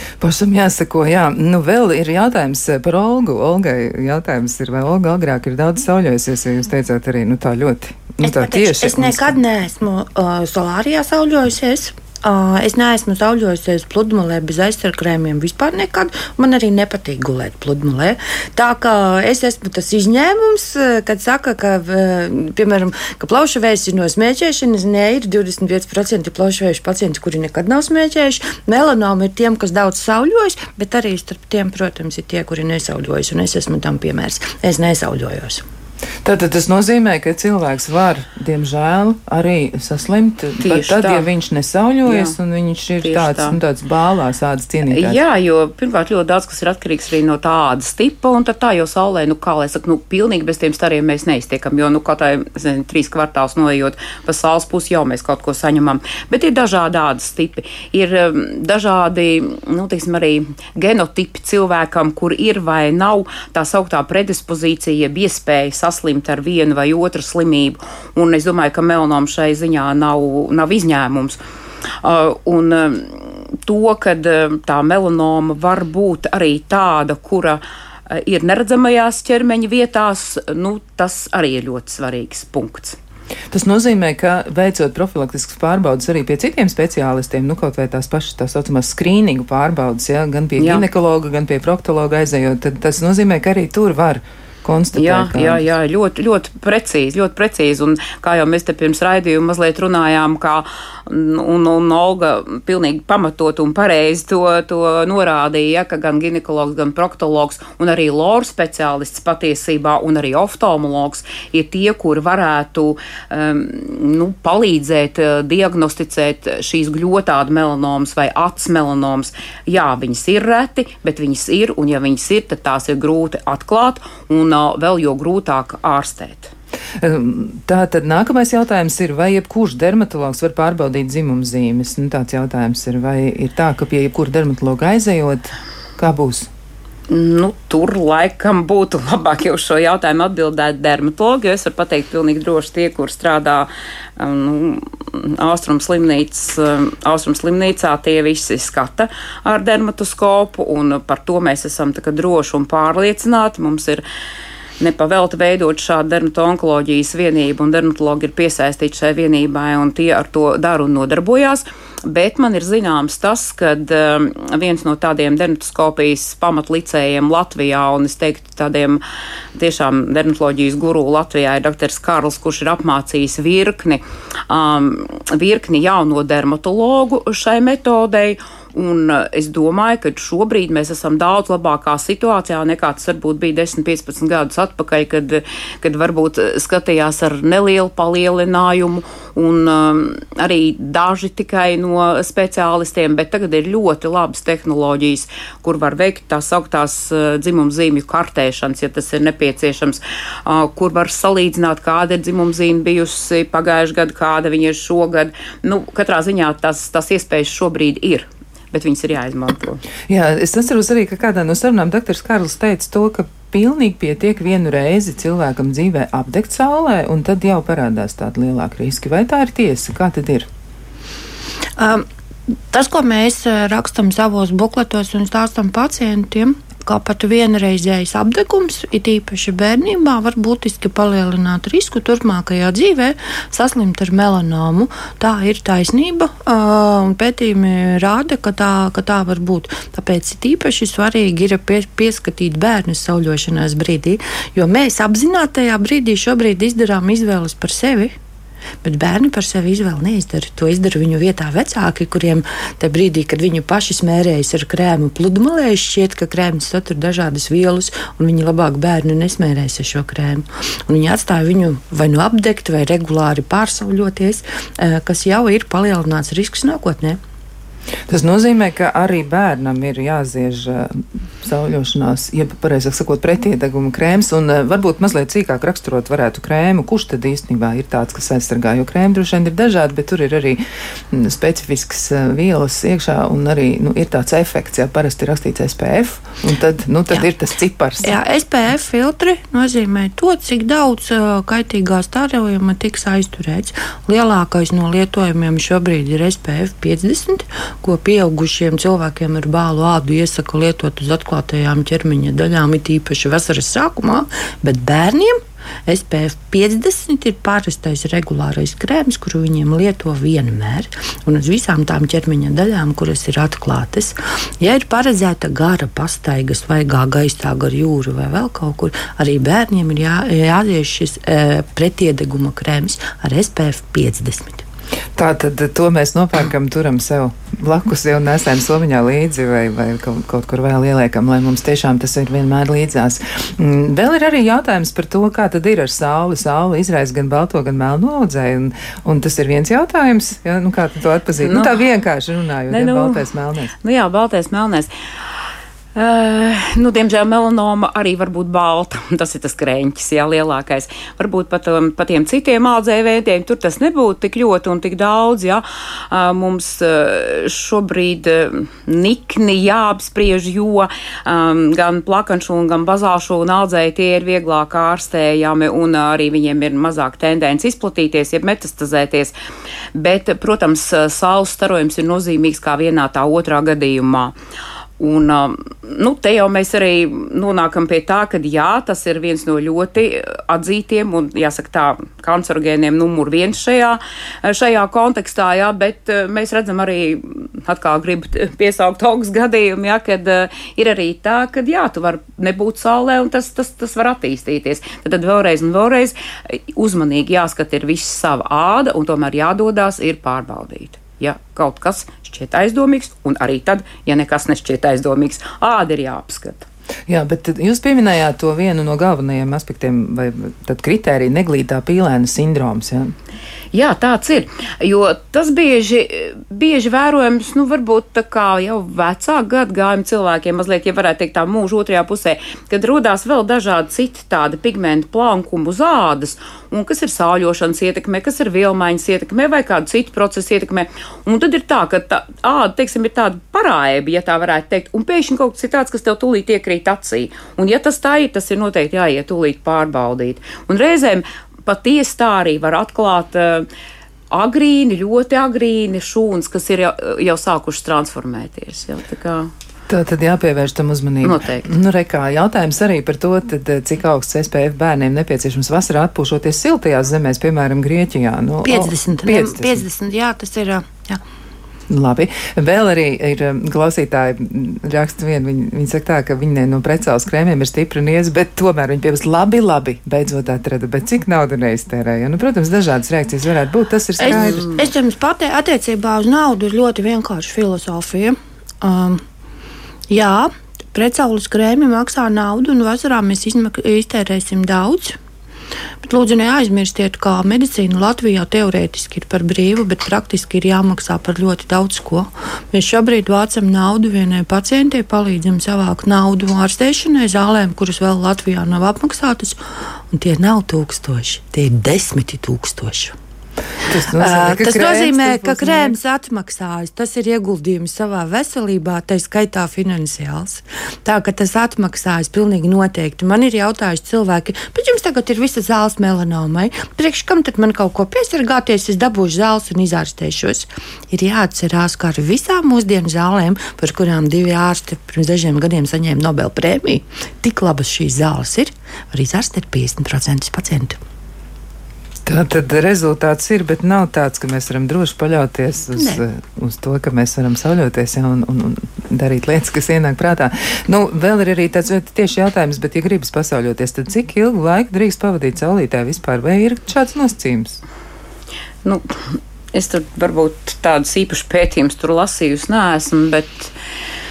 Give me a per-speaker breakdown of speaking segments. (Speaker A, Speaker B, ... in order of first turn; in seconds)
Speaker A: 0.2-9.4, 36.2-45.2, 83.5-95.7, 127.0-136.5, 210.1-220.5, 268.1-288.2, 325.2-343.7, 407.1-413.1, 449.9-459.9, 461.9-474.7, 503.9-506.0, 532.2-547.8
Speaker B: 8.2-35.6, 221.8-222.1, 222.7-248.1, 248.8-267.2, 288.0-324.6, 458.6-461.2, 474.2-479.2, 480.1-485.2, 486.0-499.6, 500.1-503.1, 504.1-531.0
Speaker C: 40.6-41.3, 42.1-42.4, 43.0-43.6, 44.9-71.4, 72.0-83.0, 90.6-90.8, 95.0-126.5, 137.1-154.0, 154.8-169.0, 169.6-209.8, 341.4-341.8, 342.7-343.3, 343.8-344.9, 345.9-369.3, 369.9-374.3, 375.0-406.7, 413.7-443.7, 444.3-449.5, 451.2-451.7, 548.8-553.7